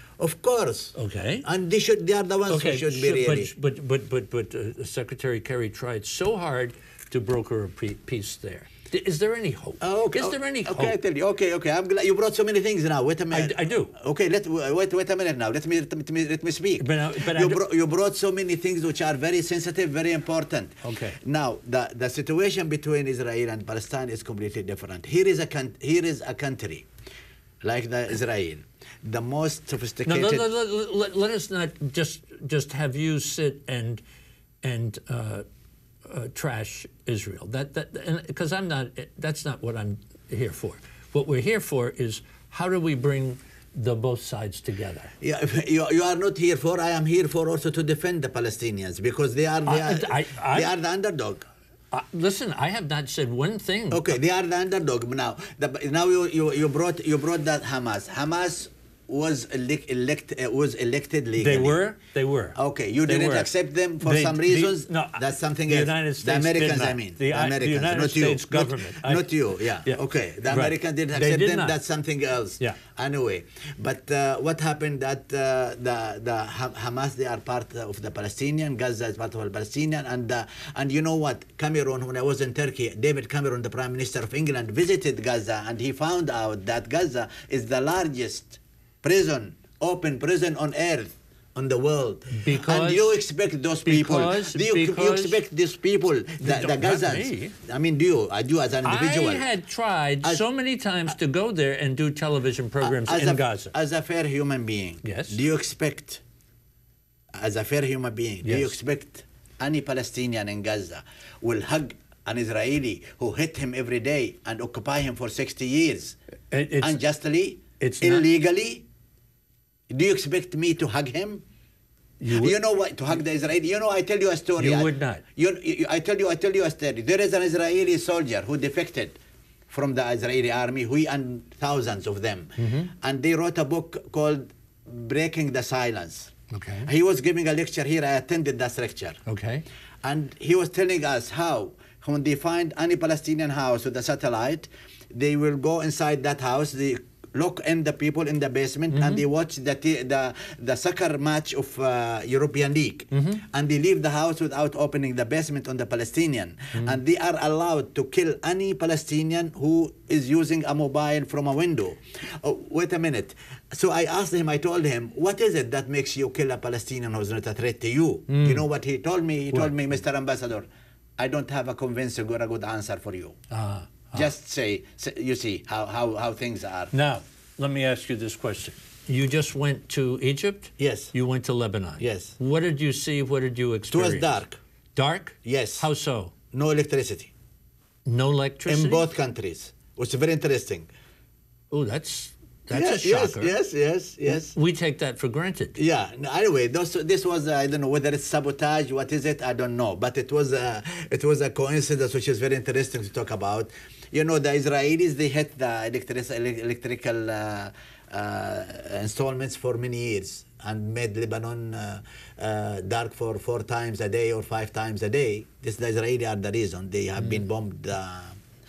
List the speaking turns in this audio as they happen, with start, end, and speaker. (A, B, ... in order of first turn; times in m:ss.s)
0:00.2-0:03.5 A
0:00.9-0:01.5 B
0:02.5-0:11.0 B
0:09.8-0:26.9 A
0:13.3-0:13.9 B
0:16.8-0:17.6 B
0:20.8-0:21.2 B
0:27.6-0:30.5 A
0:30.0-0:34.0 B
0:34.6-0:35.4 B
0:36.0-0:45.1 B
0:45.2-0:51.5 A
0:49.6-0:50.7 B
0:51.9-0:54.2 B
0:53.9-1:01.8 A
1:01.4-1:11.8 B
1:02.6-1:39.4 A
1:32.3-1:33.2 B
1:33.8-1:35.4 B
1:36.4-1:37.6 B
1:38.8-1:43.7 B
1:42.8-1:46.2 A
1:45.0-1:45.4 B
1:47.3-1:56.2 A
1:48.4-1:48.7 B
1:56.5-1:57.0 B
1:56.8-1:58.8 A
1:57.8-1:58.3 B
1:59.9-2:01.4 A
2:02.2-2:02.6 B
2:02.3-2:09.2 A
2:04.6-2:05.2 B
2:09.7-2:16.3 A
2:12.6-2:12.9 B
2:16.5-2:16.9 B
2:16.8-2:19.2 A
2:19.2-2:19.6 B
2:20.0-2:53.4 A
2:28.9-2:29.2 B
2:33.1-2:33.4 B
2:48.3-2:48.6 B
2:49.5-2:49.8 B
2:53.5-2:54.3 B
2:54.1-2:56.9 A
2:56.9-3:04.4 B
3:00.8-3:01.1 A
3:02.0-3:02.3 A
3:03.9-3:04.6 A
3:04.9-3:06.3 B
3:05.4-3:05.9 A
3:06.5-3:07.3 A
3:08.0-3:09.1 B
3:08.6-3:10.9 A
3:11.7-3:13.5 B
3:12.7-3:14.6 A
3:14.2-3:15.8 B
3:15.8-3:38.4 A
3:37.2-3:37.4 B